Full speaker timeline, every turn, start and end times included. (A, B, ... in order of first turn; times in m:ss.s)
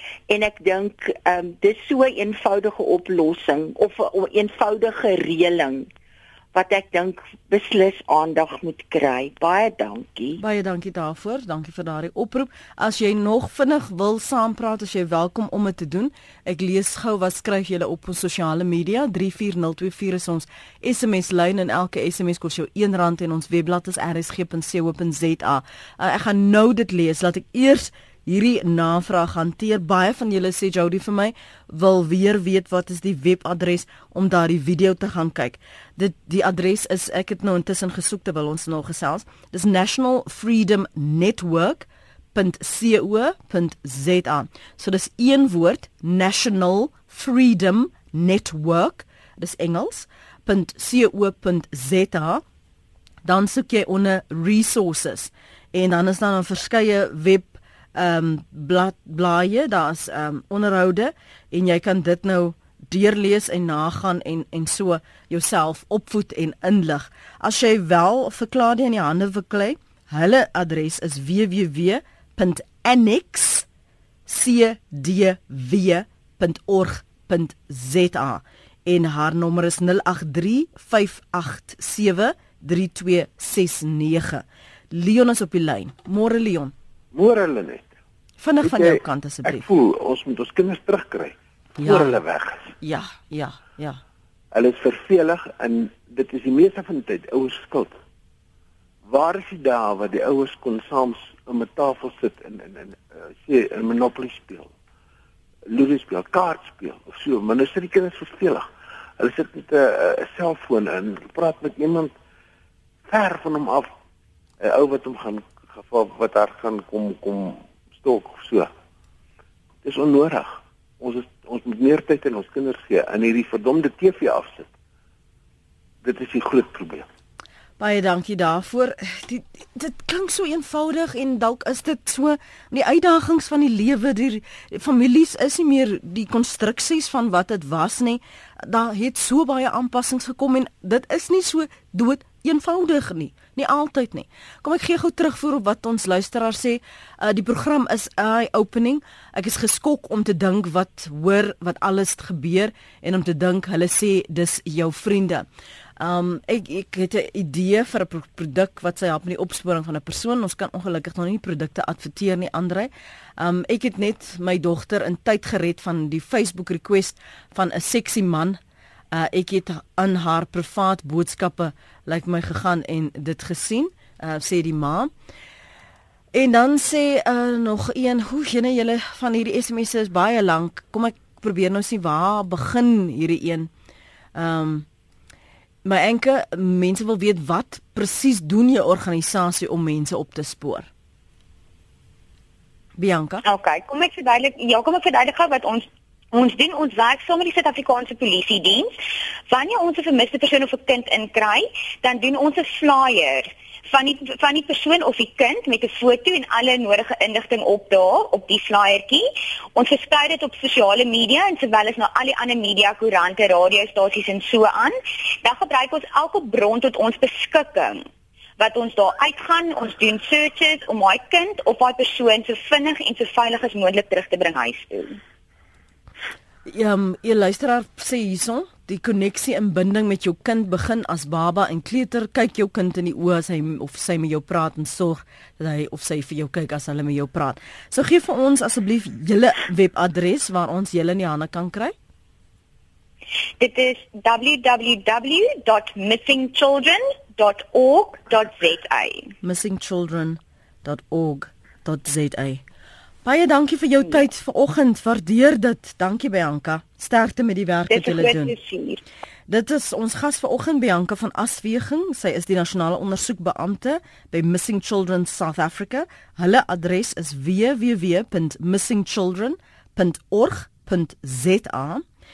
0:00.3-0:05.9 A
0:06.5-0:10.4 A
0:10.4-0:52.4 B
0:53.2-1:13.6 B
1:14.3-1:26.7 B
1:27.1-1:27.9 C
1:28.4-1:29.7 B
1:28.6-1:32.7 C
1:31.8-1:32.2 B
1:32.8-1:34.0 B
1:34.5-1:37.9 C
1:39.1-1:44.7 C
1:45.7-1:48.7 C
1:49.2-1:52.1 C
1:53.0-1:53.9 C
1:54.6-1:58.7 C
1:59.8-2:04.7 C
2:06.0-2:07.1 C
2:07.8-2:35.4 B
2:36.0-2:48.6 B
2:49.1-2:55.1 B
2:56.3-3:03.7 B
3:04.4-3:04.9 B
3:05.8-3:10.9 B
3:13.0-3:13.4 B
3:13.4-3:18.9 D
3:19.5-3:38.0 D
3:38.6-3:45.2 D
3:46.6-4:01.9 B
4:03.6-4:09.3 D
4:09.4-4:12.6 B
4:13.2-4:18.5 B
4:17.9-4:19.0 D
4:19.5-4:32.0 B